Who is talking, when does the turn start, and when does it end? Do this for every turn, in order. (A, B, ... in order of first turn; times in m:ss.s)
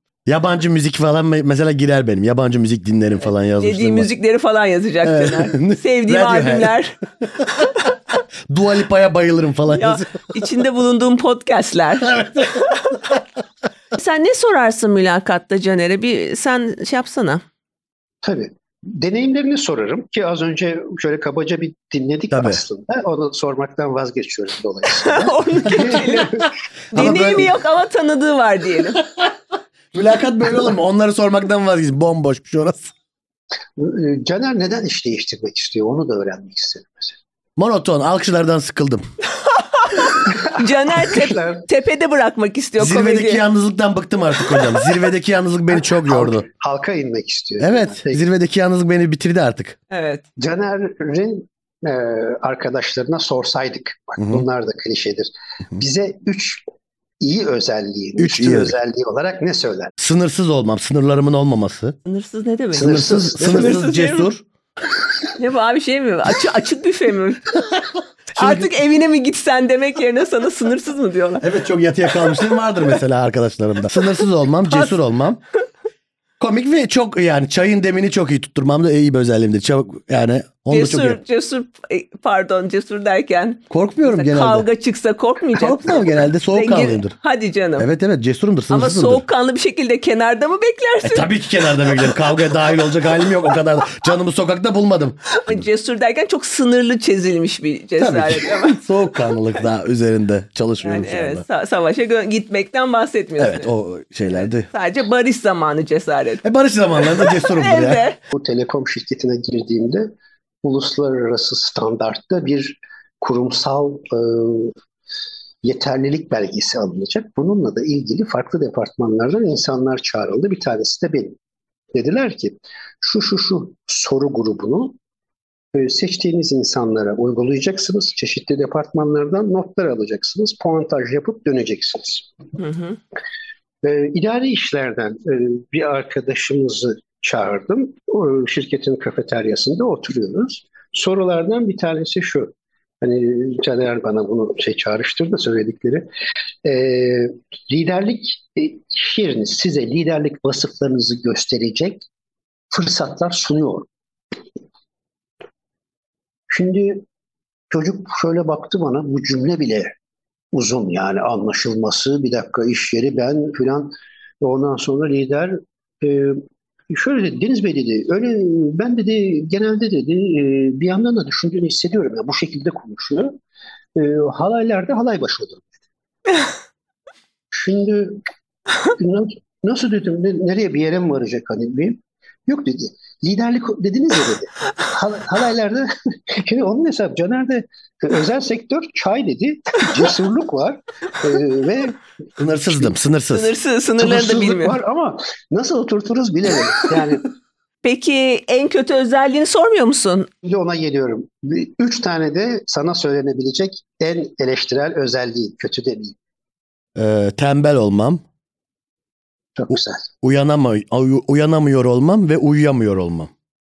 0:00.3-0:04.1 A
0:03.2-0:07.0 B
0:05.0-0:06.8 A
0:08.5-0:10.1 A
0:09.7-0:13.0 B
0:12.0-0:13.2 A
0:13.9-0:17.4 B
0:18.2-0:26.5 C
0:22.3-0:22.6 A
0:25.0-0:26.4 B
0:25.8-0:27.5 A
0:26.9-0:29.0 B
0:29.9-0:32.9 A
0:33.8-0:37.2 C
0:37.6-0:39.1 A
0:39.5-0:43.4 B
0:40.2-0:41.7 C
0:42.8-0:46.4 A
0:44.5-0:44.8 B
0:45.7-0:48.2 C
0:47.6-0:49.8 A
0:49.9-0:50.2 B
0:50.4-0:56.6 C
0:54.2-0:54.4 A
0:57.2-0:59.9 C
0:58.2-0:58.8 A
1:00.0-1:02.0 A
1:02.1-1:04.3 B
1:02.7-1:03.8 C
1:02.8-1:04.4 A
1:05.4-1:07.5 B
1:08.4-1:08.7 A
1:08.4-1:11.5 B
1:11.4-1:15.4 A
1:16.4-1:21.2 A
1:20.7-1:27.9 B
1:23.7-1:24.7 A
1:25.6-1:27.1 A
1:27.8-1:29.2 A
1:28.7-1:34.1 B
1:31.0-1:35.6 A
1:35.4-1:39.6 B
1:38.0-1:41.4 A
1:40.8-1:43.7 B
1:43.4-1:44.7 A
1:44.4-1:46.4 B
1:46.4-1:48.0 A
1:47.0-1:48.2 B
1:48.3-1:50.1 C
1:50.6-1:54.8 C
1:55.6-2:01.4 C
2:01.9-2:05.0 C
2:05.7-2:12.3 C
2:12.6-2:13.0 B
2:13.8-2:26.1 C
2:26.6-2:32.1 C
2:32.7-2:33.9 C
2:36.5-2:37.0 C
2:37.7-2:40.0 C
2:40.5-2:53.4 C
2:54.0-2:55.8 C
2:57.5-2:58.2 C
2:59.0-3:12.0 C
3:12.4-3:13.5 A
3:13.3-3:14.8 B
3:14.0-3:17.2 C
3:17.8-3:20.3 B
3:20.4-3:26.2 C
3:27.0-3:28.2 A
3:29.6-3:30.1 C
3:30.2-3:33.3 A